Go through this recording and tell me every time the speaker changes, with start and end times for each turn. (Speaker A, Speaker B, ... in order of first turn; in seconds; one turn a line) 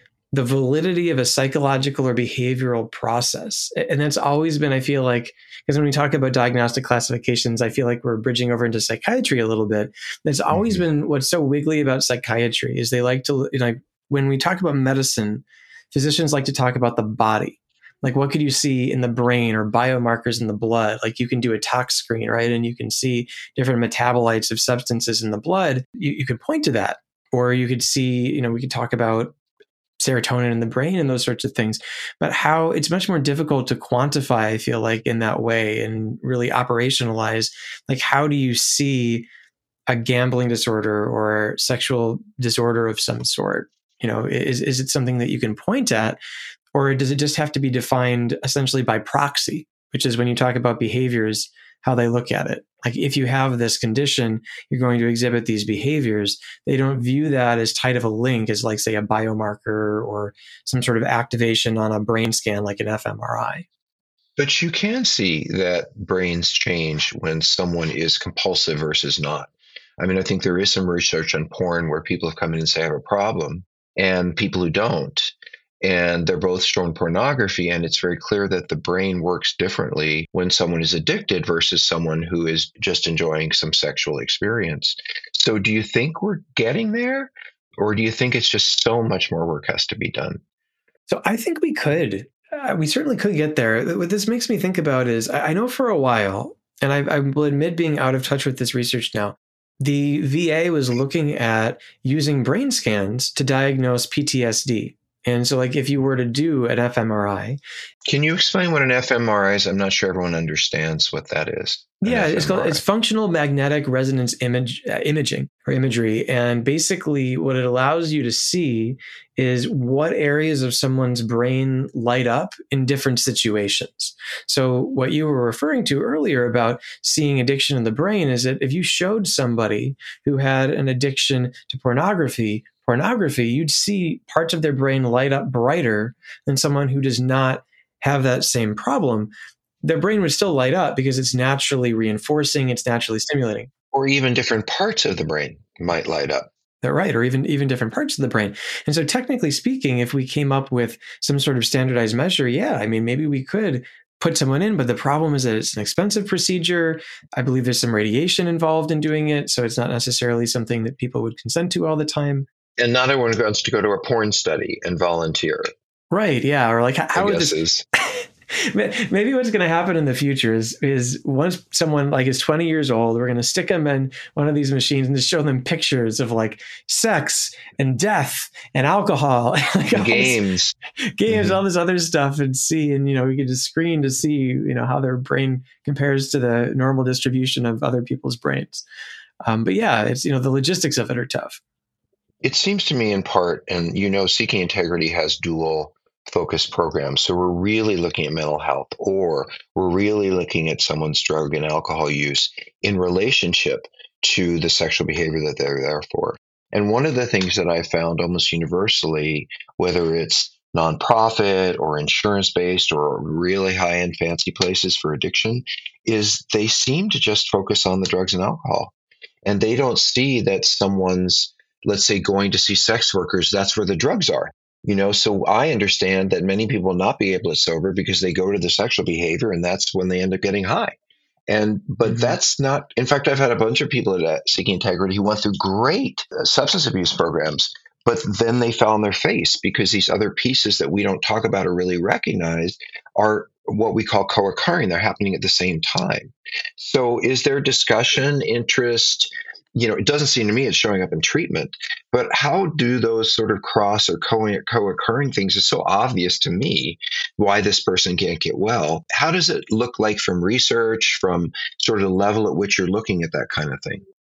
Speaker A: 0.3-29.3
Speaker B: 10.5-10.8
Speaker A: 30.0-39.2
Speaker A: 39.9-46.2
Speaker A: 46.7-63.6
Speaker B: 64.4-90.4
Speaker A: 91.1-107.6
Speaker B: 108.1-112.8
Speaker A: 112.0-139.3
Speaker A: 139.8-143.7
Speaker B: 143.9-146.5
Speaker A: 146.8-162.5
Speaker B: 162.8-165.7
Speaker A: 166.1-180.4
Speaker B: 167.1-167.8
Speaker B: 179.9-180.8
Speaker A: 181.1-188.8
Speaker B: 181.3-181.6
Speaker A: 189.4-191.6
Speaker B: 192.4-218.9
Speaker B: 219.4-230.9
Speaker B: 231.5-264.0
Speaker A: 232.0-232.4